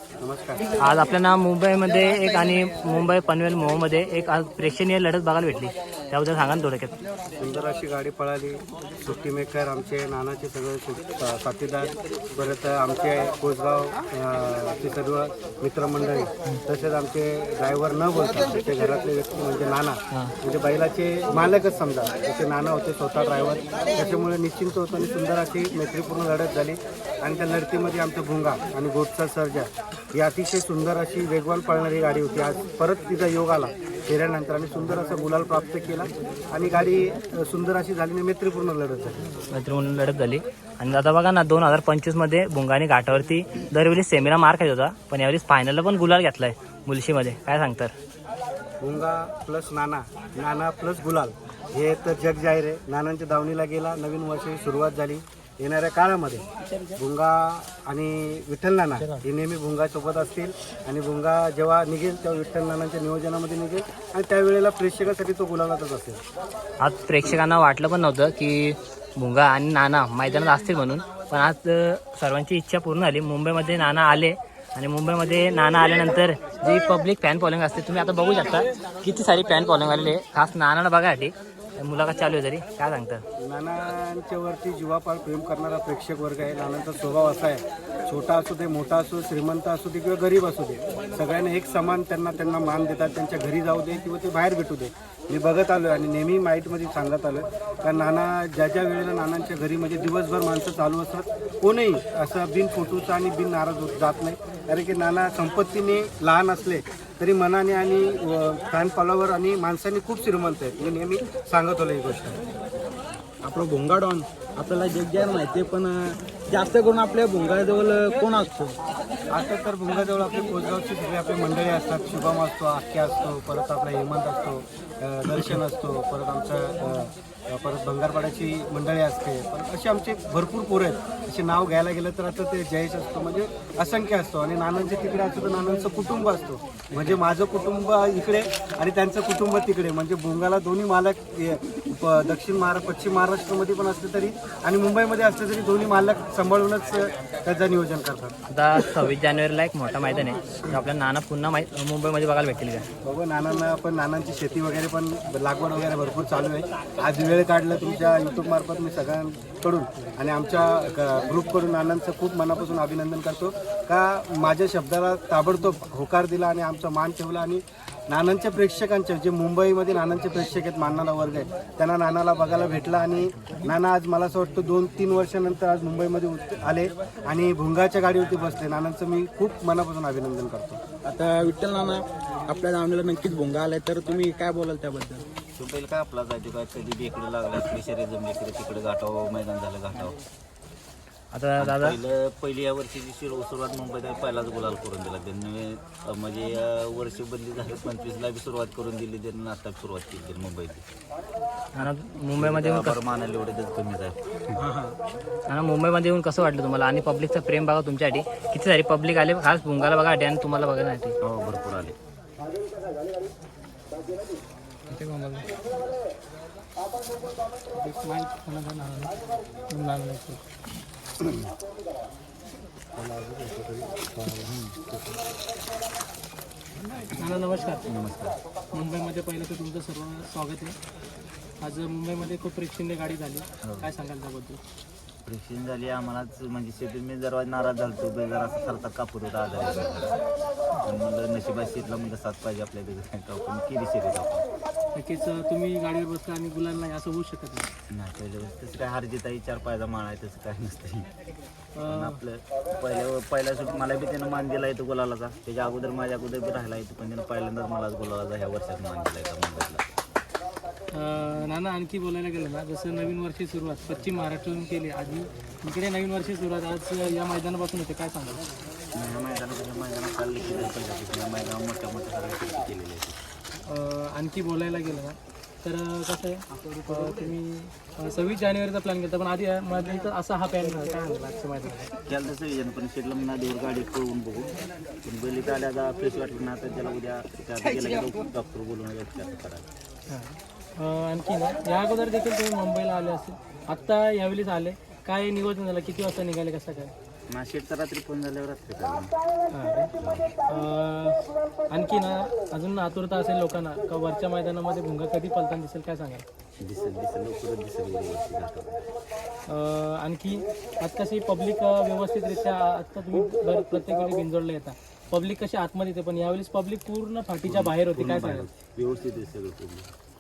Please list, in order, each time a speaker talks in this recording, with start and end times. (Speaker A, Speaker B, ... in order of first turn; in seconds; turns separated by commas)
Speaker A: 0.2-0.8, Speaker B: 0.8-7.0, Speaker A: 7.4-39.4, Speaker B: 39.5-47.9, Speaker A: 48.8-56.5, Speaker A: 57.0-66.2, Speaker B: 66.8-83.2, Speaker A: 83.4-112.4, Speaker C: 113.4-118.8, Speaker A: 119.3-148.4, Speaker B: 148.5-152.9, Speaker A: 153.0-180.8, Speaker C: 181.1-185.2, Speaker D: 185.6-190.2, Speaker B: 191.3-192.0, Speaker D: 191.6-200.8, Speaker B: 201.8-203.0, Speaker D: 201.8-204.6, Speaker C: 204.6-205.0, Speaker B: 205.5-211.2, Speaker D: 211.2-212.0, Speaker B: 214.9-215.5, Speaker E: 217.8-219.1, Speaker E: 219.7-220.4, Speaker D: 223.0-224.9, Speaker D: 226.9-228.4, Speaker E: 228.7-230.8, Speaker E: 231.6-233.4, Speaker D: 233.6-233.9, Speaker E: 234.1-234.6, Speaker D: 235.2-240.2, Speaker D: 240.8-244.5, Speaker E: 245.0-247.7, Speaker D: 247.9-251.1, Speaker D: 251.8-259.9, Speaker E: 261.1-268.4, Speaker D: 268.9-273.2, Speaker E: 273.7-276.3, Speaker E: 276.9-281.8, Speaker D: 282.1-284.5, Speaker D: 285.0-289.6, Speaker E: 290.1-296.9, Speaker D: 297.3-299.1, Speaker D: 300.0-300.3, Speaker E: 300.5-301.2, Speaker E: 301.7-306.2, Speaker D: 306.6-308.9, Speaker E: 309.5-317.2, Speaker D: 317.4-319.9, Speaker B: 317.5-318.4